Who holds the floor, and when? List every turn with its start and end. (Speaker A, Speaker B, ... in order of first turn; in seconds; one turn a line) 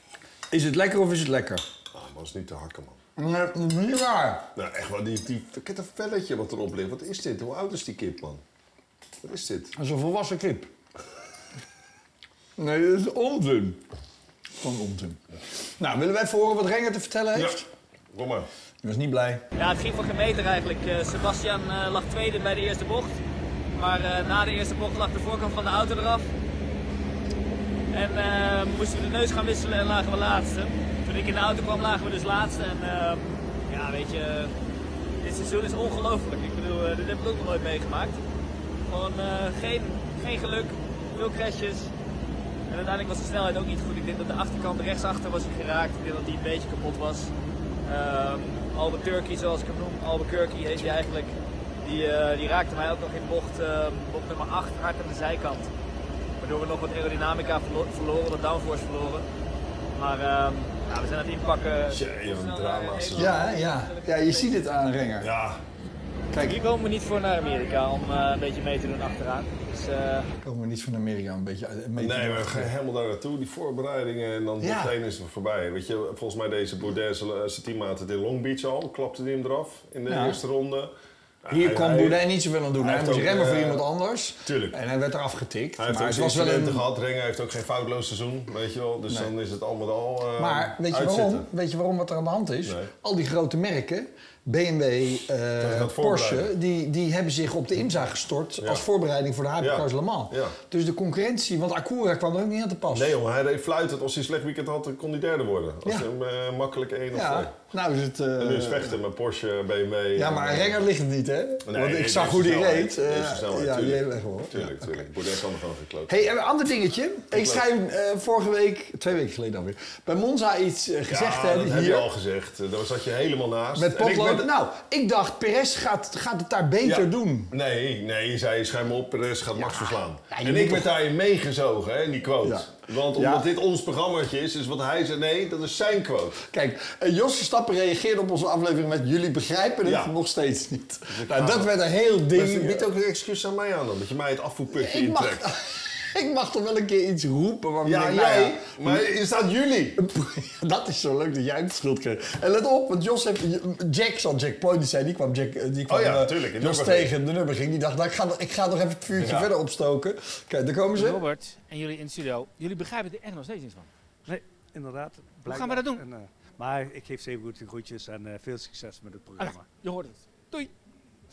Speaker A: 0.5-1.6
Speaker B: 1.9-3.0
Speaker A: 3.2-4.5
Speaker B: 4.5-8.4
Speaker B: 9.2-9.7
Speaker A: 9.8-10.7
Speaker A: 12.6-13.8
Speaker A: 14.6-15.2
Speaker A: 15.8-17.6
Speaker B: 17.3-18.5
Speaker A: 18.8-19.4
Speaker C: 19.6-23.2
Speaker C: 23.7-26.3
Speaker C: 27.9-34.5
Speaker C: 35.2-38.2
Speaker C: 38.9-41.9
Speaker C: 42.7-47.3
Speaker C: 47.9-55.7
Speaker C: 56.4-59.2
Speaker C: 59.9-64.6
Speaker B: 61.9-63.4
Speaker A: 63.1-65.3
Speaker B: 65.2-65.6
Speaker A: 66.3-66.6
Speaker C: 66.4-70.3
Speaker A: 70.4-72.7
Speaker B: 72.0-80.9
Speaker A: 74.6-74.9
Speaker A: 80.1-80.4
Speaker B: 81.4-82.2
Speaker A: 81.5-86.8
Speaker B: 82.8-83.8
Speaker B: 84.4-84.8
Speaker B: 85.8-91.5
Speaker A: 90.4-103.2
Speaker B: 92.6-92.9
Speaker B: 95.6-96.5
Speaker B: 99.6-100.5
Speaker B: 102.9-107.5
Speaker A: 107.1-109.0
Speaker B: 108.4-110.8
Speaker A: 110.1-115.1
Speaker B: 111.6-116.3
Speaker A: 116.1-122.1
Speaker B: 117.3-117.7
Speaker B: 121.1-124.5
Speaker A: 123.7-127.5
Speaker B: 126.8-136.4
Speaker A: 129.6-130.9
Speaker A: 132.4-133.5
Speaker A: 136.5-142.9
Speaker B: 139.8-140.1
Speaker B: 141.1-141.8
Speaker B: 142.3-145.5
Speaker A: 144.7-149.0
Speaker B: 147.8-150.0
Speaker A: 150.0-161.2
Speaker B: 155.9-157.2
Speaker B: 159.1-159.5
Speaker D: 160.9-163.9
Speaker E: 164.2-169.7
Speaker D: 165.4-166.0
Speaker D: 169.4-170.7